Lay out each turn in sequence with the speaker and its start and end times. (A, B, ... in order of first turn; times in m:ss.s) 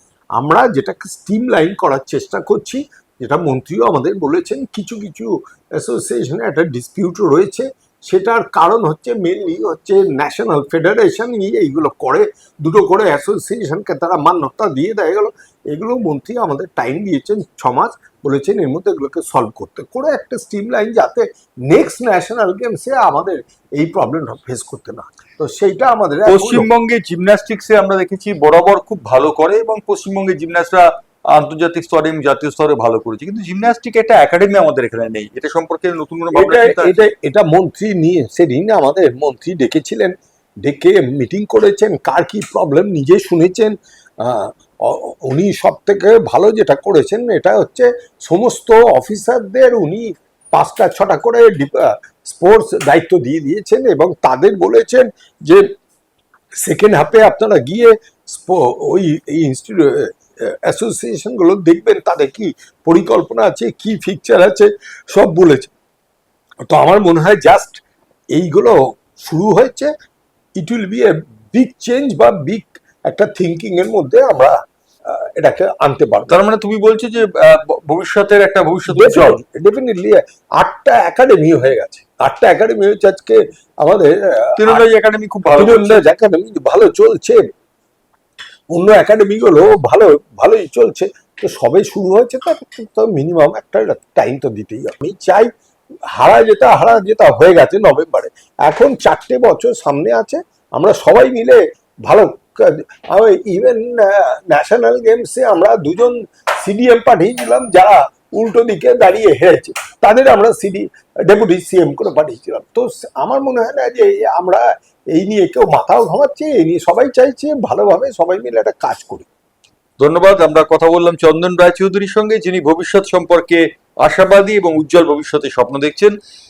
0:00.4-0:26.7 A
0:26.3-0:37.0 B
0:36.3-0:55.6 A
0:56.6-1:05.7 A
1:06.6-1:07.8 A
1:08.3-1:09.9 A
1:10.6-1:16.4 A
1:16.3-1:19.4 B
1:18.9-1:24.8 A
1:24.6-1:26.0 B
1:25.5-1:27.4 A
1:28.7-1:35.5 A
1:36.1-1:59.3 A
2:00.0-2:06.1 B